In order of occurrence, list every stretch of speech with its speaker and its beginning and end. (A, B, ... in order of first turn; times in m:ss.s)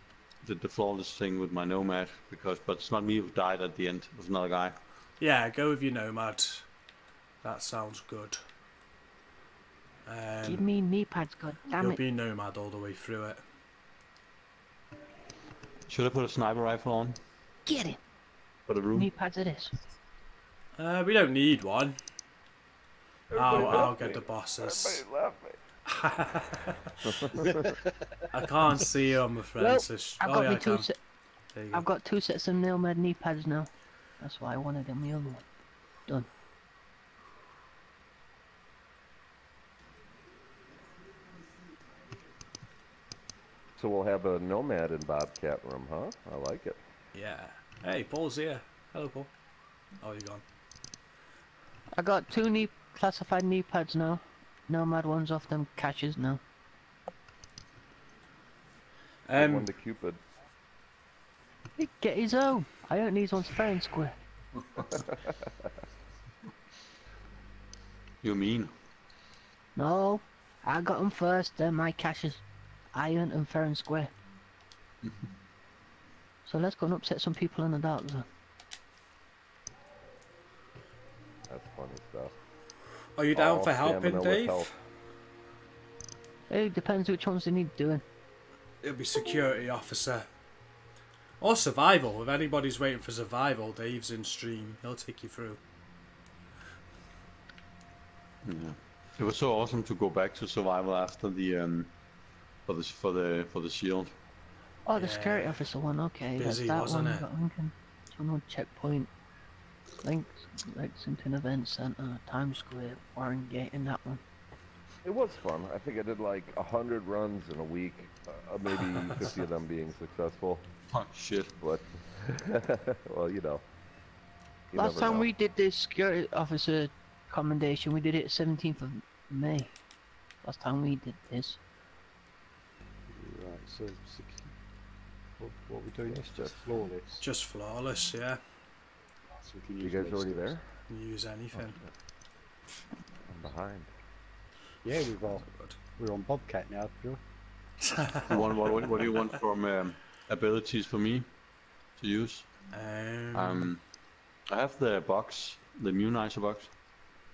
0:00.4-0:04.8 A
0:05.2-0:06.6 B
0:07.4-0:08.4 B
0:10.0-0:10.6 B
0:10.4-0:12.0 C
0:11.8-0:13.4 B
0:15.9-0:17.2 A
0:17.6-0:18.0 C
0:18.7-0:19.1 A
0:18.9-0:19.7 C
0:20.8-0:22.0 B
0:23.3-0:25.6 D
0:23.3-0:25.0 B
0:25.8-0:27.2 B
0:27.0-0:27.7 D
0:27.3-0:27.9 E
0:28.3-0:30.9 B
0:29.6-0:31.0 C
0:31.5-0:31.8 B
0:31.7-0:35.4 C
0:43.8-0:46.8 D
0:47.1-0:49.3 B
0:50.0-0:50.4 B
0:52.0-0:56.4 C
0:59.3-0:59.7 B
0:59.3-1:00.2 D
1:01.8-1:04.1 C
1:04.7-1:05.0 A
1:05.1-1:05.7 D
1:08.2-1:08.7 A
1:09.8-1:12.4 C
1:12.9-1:14.1 C
1:16.4-1:18.2 C
1:21.5-1:22.3 D
1:23.2-1:24.7 B
1:23.3-1:24.7 D
1:26.5-1:28.0 C
1:28.8-1:30.3 B
1:31.4-1:35.6 B
1:38.4-1:41.9 A
1:42.6-1:44.1 A
1:44.8-1:49.1 C
1:45.0-1:45.6 B
1:46.4-1:47.2 B
1:50.0-1:54.2 C
1:55.0-2:00.7 D
2:00.9-2:01.5 A
2:01.6-2:03.6 D
2:04.7-2:05.3 D
2:04.7-2:09.7 C
2:10.4-2:11.6 C
2:13.1-2:14.5 E
2:15.4-2:17.2 E
2:16.1-2:16.6 D
2:17.2-2:18.4 B
2:19.3-2:20.6 E
2:19.8-2:20.6 D
2:20.9-2:21.8 B
2:23.3-2:23.9 D
2:24.8-2:27.2 E
2:25.4-2:25.8 B
2:27.8-2:28.7 B
2:28.3-2:31.3 A
2:32.0-2:32.5 A
2:32.7-2:33.7 B
2:33.3-2:33.8 A
2:34.5-2:36.7 A